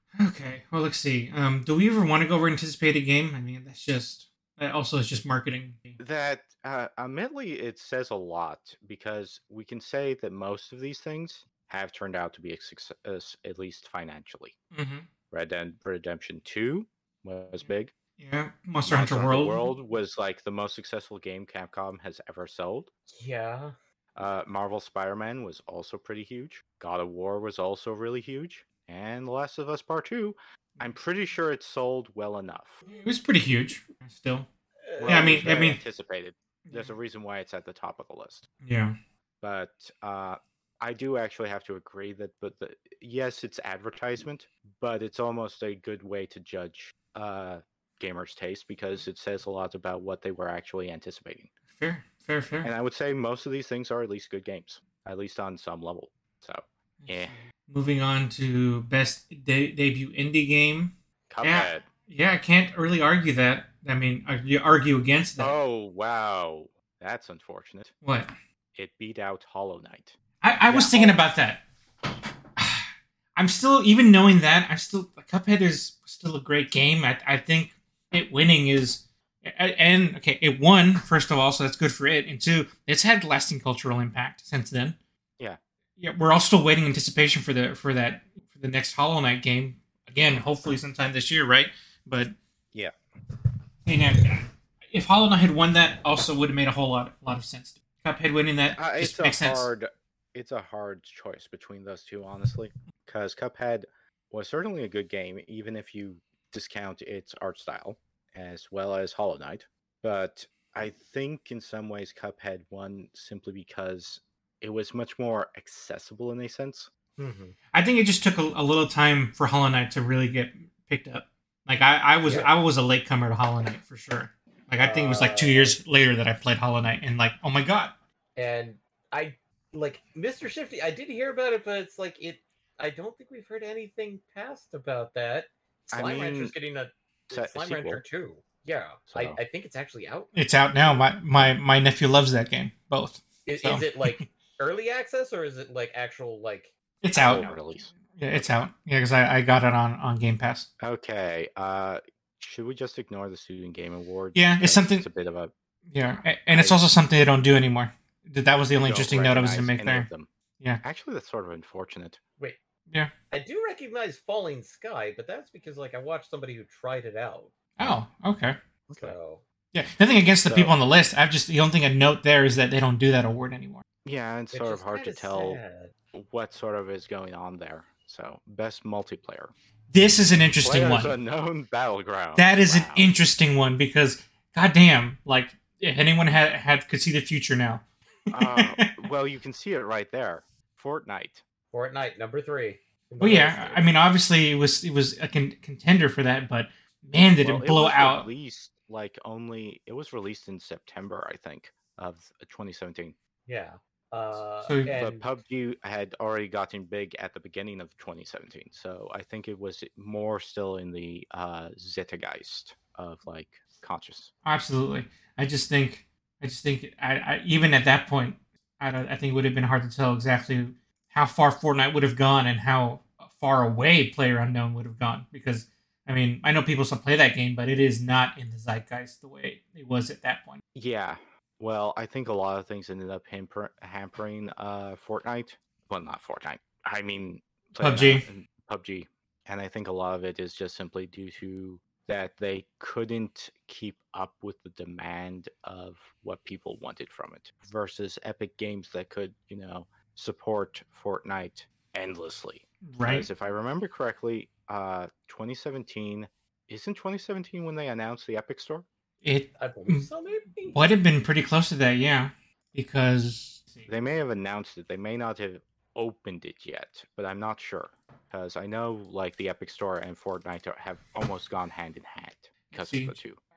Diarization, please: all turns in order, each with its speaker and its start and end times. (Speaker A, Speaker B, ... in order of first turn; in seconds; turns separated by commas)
Speaker A: 0.1-6.0, Speaker B: 6.0-14.5, Speaker A: 14.7-15.1, Speaker B: 15.3-17.9, Speaker A: 18.2-19.6, Speaker B: 18.9-22.9, Speaker C: 23.1-23.7, Speaker B: 24.1-32.8, Speaker A: 32.9-34.5, Speaker C: 34.9-35.7, Speaker B: 35.0-38.5, Speaker A: 35.1-35.8, Speaker A: 36.7-36.9, Speaker A: 38.6-39.0, Speaker B: 39.4-51.5, Speaker A: 51.8-52.7, Speaker B: 52.6-57.4, Speaker A: 57.0-65.5, Speaker B: 61.3-61.9, Speaker B: 65.4-67.9, Speaker A: 68.0-68.3, Speaker B: 68.8-70.2, Speaker A: 70.4-71.6, Speaker B: 70.7-71.2, Speaker A: 72.6-85.0, Speaker A: 86.0-92.3, Speaker A: 93.9-99.7, Speaker B: 98.8-116.9, Speaker C: 117.2-117.5, Speaker A: 117.7-127.9, Speaker C: 124.8-125.8, Speaker C: 128.4-141.0, Speaker B: 135.9-136.5, Speaker B: 137.3-138.0, Speaker B: 139.1-139.4, Speaker A: 140.3-144.2, Speaker C: 143.5-147.6, Speaker A: 147.0-147.5, Speaker B: 147.2-148.5, Speaker A: 148.1-150.7, Speaker B: 150.8-155.5, Speaker A: 154.3-155.1, Speaker A: 155.9-160.1, Speaker B: 156.5-156.9, Speaker B: 158.8-160.3, Speaker B: 160.8-162.2, Speaker C: 163.3-167.5, Speaker A: 167.8-168.6, Speaker B: 168.9-169.2, Speaker C: 169.0-169.4, Speaker A: 169.7-173.8, Speaker B: 170.5-170.8, Speaker B: 174.0-175.6, Speaker C: 174.5-175.9, Speaker B: 176.1-179.5, Speaker A: 179.9-181.1, Speaker B: 180.6-183.1, Speaker A: 182.3-187.8, Speaker B: 188.3-191.4, Speaker A: 188.3-188.9, Speaker C: 191.7-193.9, Speaker A: 193.2-198.3, Speaker B: 197.4-203.2, Speaker C: 203.5-205.2, Speaker A: 204.7-204.9, Speaker B: 204.9-214.3, Speaker A: 214.4-230.6, Speaker B: 230.8-258.9, Speaker A: 237.8-238.2, Speaker A: 252.9-253.3, Speaker A: 259.2-260.1, Speaker C: 259.6-260.8, Speaker A: 260.7-263.9, Speaker B: 263.9-273.4, Speaker A: 272.7-273.1